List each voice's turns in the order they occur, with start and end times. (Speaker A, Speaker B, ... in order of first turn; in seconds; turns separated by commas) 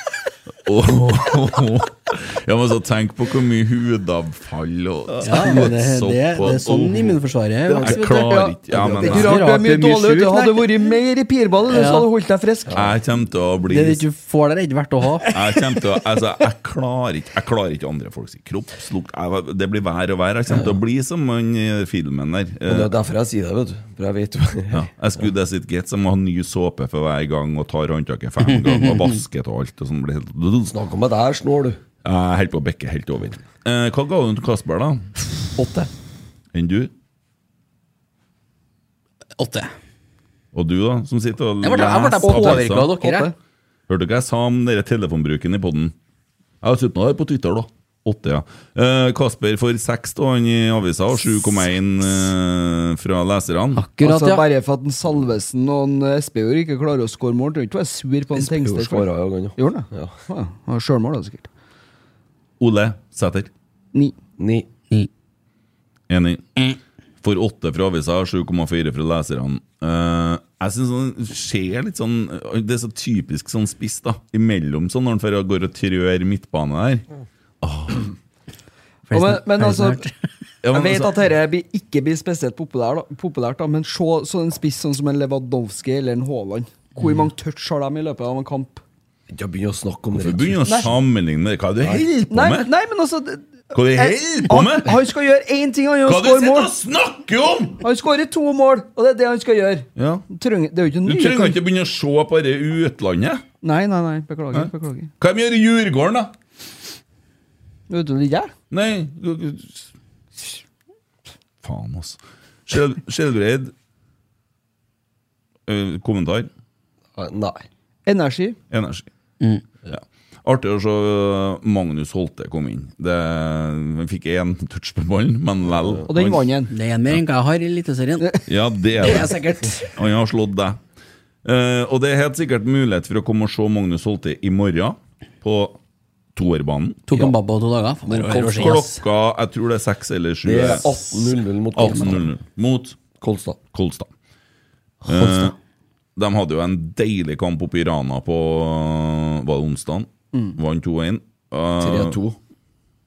Speaker A: 0.6-7.2, Speaker B: 5.1-5.5, Speaker C: 5.2-10.9, Speaker B: 7.7-8.1, Speaker A: 7.8-9.4, Speaker D: 8.2-12.8, Speaker B: 8.7-9.3, Speaker C: 11.7-12.1, Speaker B: 12.7-12.9, Speaker A: 12.7-14.0, Speaker C: 13.7-15.3, Speaker A: 15.3-22.9, Speaker B: 22.7-25.3, Speaker A: 24.7-30.7, Speaker C: 28.5-29.1, Speaker B: 30.7-31.8, Speaker A: 32.0-35.1, Speaker B: 35.6-35.9, Speaker A: 36.5-36.9, Speaker C: 39.4-39.7, Speaker A: 40.5-42.9, Speaker C: 41.6-43.3, Speaker D: 42.2-43.3, Speaker A: 43.9-45.9, Speaker A: 46.6-53.8, Speaker C: 53.8-54.5, Speaker D: 54.0-61.5, Speaker B: 58.3-60.2, Speaker A: 62.6-63.5, Speaker B: 64.4-64.7, Speaker A: 66.1-66.6, Speaker A: 67.2-77.0, Speaker A: 77.6-78.1, Speaker C: 79.1-80.1, Speaker D: 79.1-80.0, Speaker A: 80.6-81.2, Speaker D: 80.7-88.8, Speaker B: 89.3-90.9, Speaker A: 90.2-92.7, Speaker D: 90.6-90.9, Speaker D: 92.3-96.7, Speaker A: 93.7-95.0, Speaker A: 96.0-97.8, Speaker D: 97.8-101.6, Speaker A: 100.0-100.3, Speaker A: 101.0-103.4, Speaker D: 103.6-105.1, Speaker A: 104.5-106.3, Speaker D: 107.9-108.5, Speaker A: 108.7-109.9, Speaker A: 111.6-113.7, Speaker A: 115.7-116.5, Speaker B: 117.1-117.6, Speaker D: 118.1-118.6, Speaker A: 118.7-119.1, Speaker A: 119.9-126.5, Speaker B: 125.7-126.0, Speaker D: 126.1-126.7, Speaker C: 126.7-128.4, Speaker A: 128.5-130.8, Speaker C: 129.0-129.9, Speaker A: 131.4-135.8, Speaker A: 136.3-137.3, Speaker C: 137.1-139.0, Speaker B: 138.1-138.9, Speaker A: 138.3-143.0, Speaker B: 140.4-142.3, Speaker B: 143.2-143.6, Speaker A: 143.7-144.1, Speaker C: 145.1-145.6, Speaker A: 145.1-145.5, Speaker A: 146.2-152.2, Speaker D: 150.3-150.6, Speaker B: 151.8-152.4